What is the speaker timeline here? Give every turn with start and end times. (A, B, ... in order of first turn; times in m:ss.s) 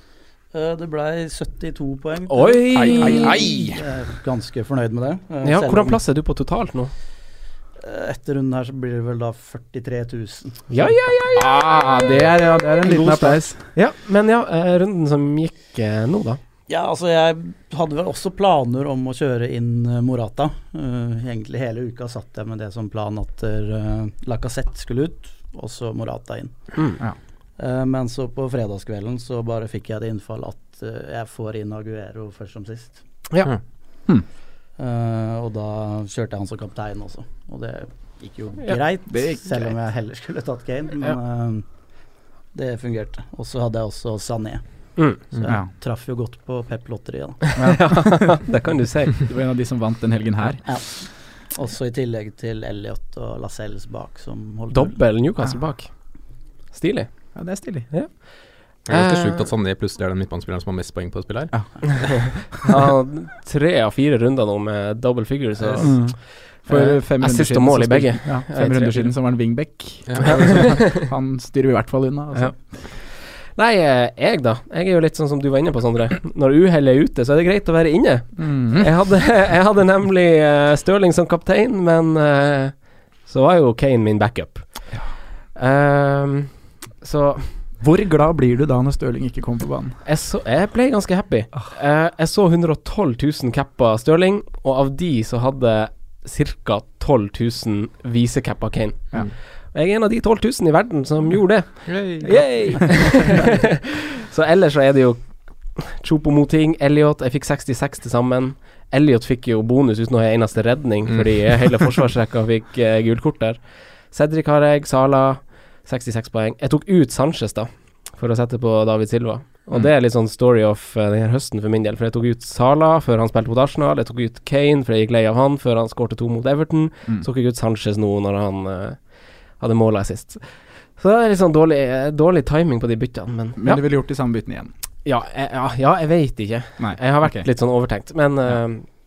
0:00.5-0:06.0 A
0:02.3-0:03.5 B
0:02.7-0:03.7 C
0:02.7-0:03.8 D
0:05.4-0:06.9 B
0:07.8-0:10.9 A
0:10.7-0:11.7 B
0:11.3-0:13.6 D
0:12.8-0:16.4 B
0:16.7-0:26.7 A
0:27.6-0:33.0 A
0:34.8-0:41.6 A
0:39.1-0:39.7 D
0:42.5-0:44.6 A
0:45.0-0:45.2 B
0:45.2-0:47.6 A
0:45.4-0:45.7 D
0:47.6-0:48.4 D
0:47.6-0:49.2 B
0:49.2-0:50.8 D
0:50.6-0:55.0 A
0:54.7-0:56.2 B
0:56.7-0:59.4 B
0:57.3-0:57.9 D
0:58.8-1:02.1 C
1:01.5-1:02.4 D
1:02.2-1:09.1 B
1:05.6-1:05.9 C
1:05.8-1:12.6 D
1:10.0-1:10.6 C
1:10.2-1:11.1 B
1:12.3-1:25.0 B
1:18.4-1:18.9 D
1:25.5-1:27.6 B
1:27.8-1:30.0 D
1:30.0-2:13.8 B
1:41.8-1:43.0 C
2:13.6-2:14.7 D
2:15.0-2:18.9 B
2:16.8-2:17.5 D